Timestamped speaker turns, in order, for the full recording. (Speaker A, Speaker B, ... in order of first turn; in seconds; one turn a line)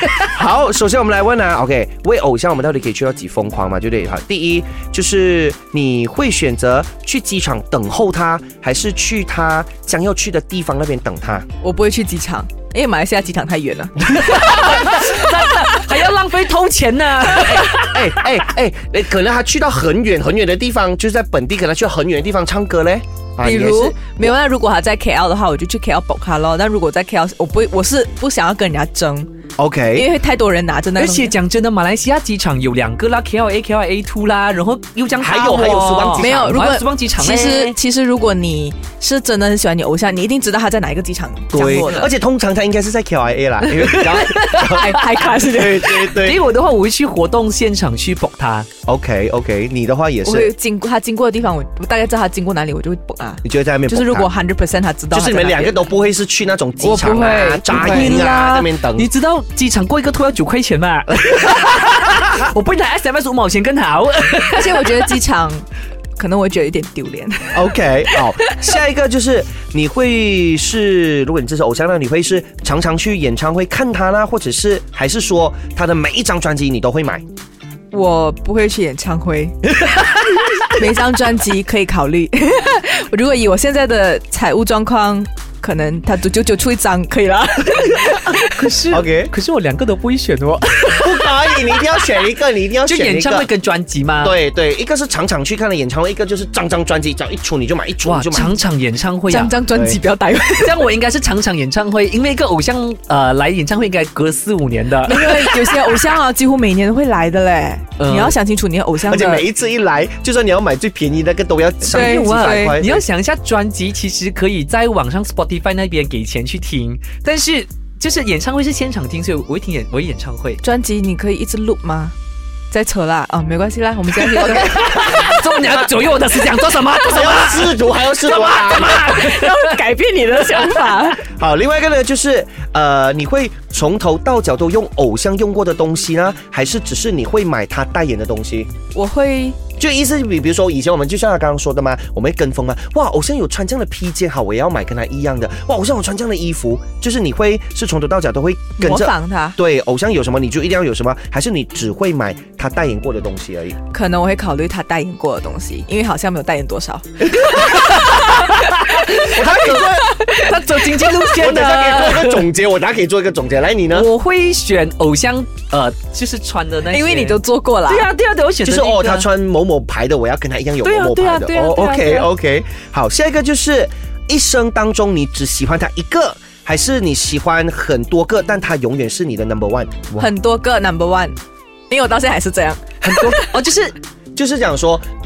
Speaker A: 0.2-11.4
Speaker B: 11.6-15.0
Speaker C: 14.2-18.1
Speaker A: 17.4-24.3
Speaker B: 23.4-29.3
Speaker A: 29.6-30.1
Speaker B: 29.9-31.3
Speaker C: 31.0-37.7
Speaker A: 35.2-36.7
Speaker B: 36.2-42.1
Speaker A: 41.5-46.5
Speaker C: 43.9-44.9
Speaker B: 44.4-46.1
Speaker C: 45.8-48.7
Speaker A: 48.9-50.5
Speaker B: 50.2-55.8
Speaker A: 53.4-54.3
Speaker A: 55.1-59.1
Speaker B: 56.8-58.3
Speaker C: 57.7-65.1
Speaker B: 64.5-65.6
Speaker B: 66.2-68.5
Speaker A: 67.5-77.2
Speaker B: 77.9-79.6
Speaker B: 80.7-88.5
Speaker C: 88.2-91.3
Speaker A: 88.9-89.3
Speaker A: 90.9-93.5
Speaker C: 92.8-94.4
Speaker A: 94.2-98.6
Speaker C: 98.0-99.5
Speaker B: 99.3-100.8
Speaker A: 99.7-100.0
Speaker C: 100.6-106.0
Speaker B: 105.0-109.5
Speaker C: 108.0-108.3
Speaker A: 109.0-113.0
Speaker C: 111.8-120.6
Speaker B: 111.9-112.8
Speaker B: 120.6-122.1
Speaker B: 122.7-125.0
Speaker A: 124.4-125.8
Speaker C: 124.5-129.8
Speaker A: 127.0-129.1
Speaker B: 128.4-131.2
Speaker C: 130.5-130.9
Speaker A: 131.2-138.7
Speaker B: 138.9-139.6
Speaker A: 139.8-153.8
Speaker B: 148.8-149.6
Speaker B: 153.9-158.5
Speaker A: 157.2-158.2
Speaker C: 157.7-162.5
Speaker A: 159.2-160.2
Speaker B: 160.0-160.5
Speaker A: 161.3-164.1
Speaker C: 163.9-169.3
Speaker B: 166.9-168.1
Speaker A: 168.6-180.3
Speaker C: 170.8-172.3
Speaker B: 180.2-181.3
Speaker B: 181.9-183.5
Speaker C: 183.0-183.9
Speaker A: 184.3-185.0